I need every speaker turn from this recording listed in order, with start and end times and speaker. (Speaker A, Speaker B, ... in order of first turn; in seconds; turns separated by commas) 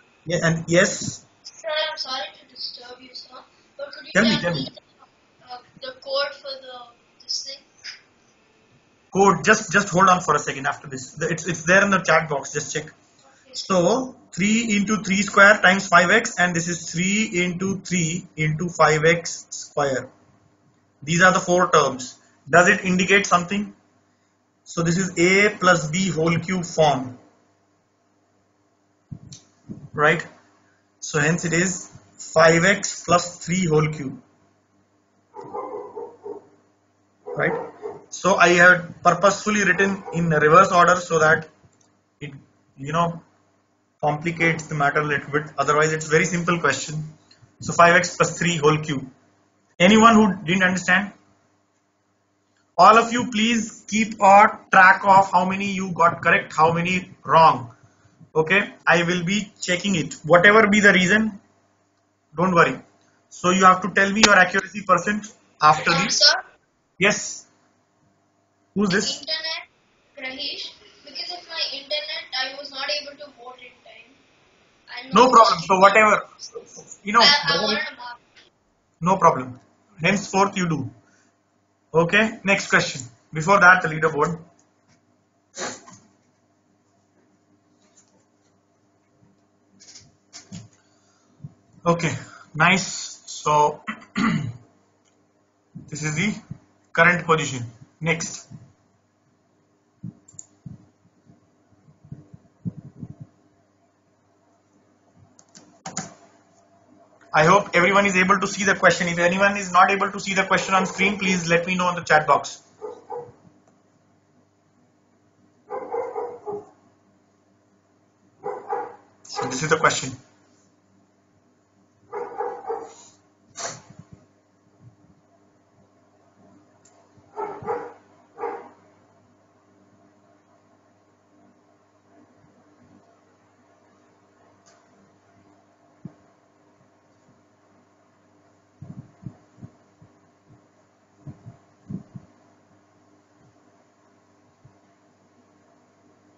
Speaker A: 0.2-1.2, Speaker B: 1.5-4.8, Speaker A: 4.1-4.7, Speaker B: 5.4-7.7, Speaker A: 9.1-12.9, Speaker B: 13.5-13.8, Speaker A: 13.6-20.1, Speaker A: 21.0-23.8, Speaker A: 24.6-27.2, Speaker A: 29.9-30.2, Speaker A: 31.0-34.2, Speaker A: 37.3-41.5, Speaker A: 42.2-43.2, Speaker A: 44.0-49.1, Speaker A: 49.8-51.1, Speaker A: 52.8-57.7, Speaker A: 58.3-61.4, Speaker A: 62.3-66.1, Speaker B: 65.7-66.4, Speaker A: 67.0-67.4, Speaker A: 68.7-69.2, Speaker B: 68.9-74.2, Speaker B: 74.9-76.1, Speaker A: 75.1-76.2, Speaker A: 77.0-77.8, Speaker B: 77.2-78.1, Speaker A: 79.0-80.9, Speaker A: 81.9-84.4, Speaker A: 91.8-94.5, Speaker A: 95.9-96.4, Speaker A: 96.9-98.5, Speaker A: 107.3-112.6, Speaker A: 119.3-120.2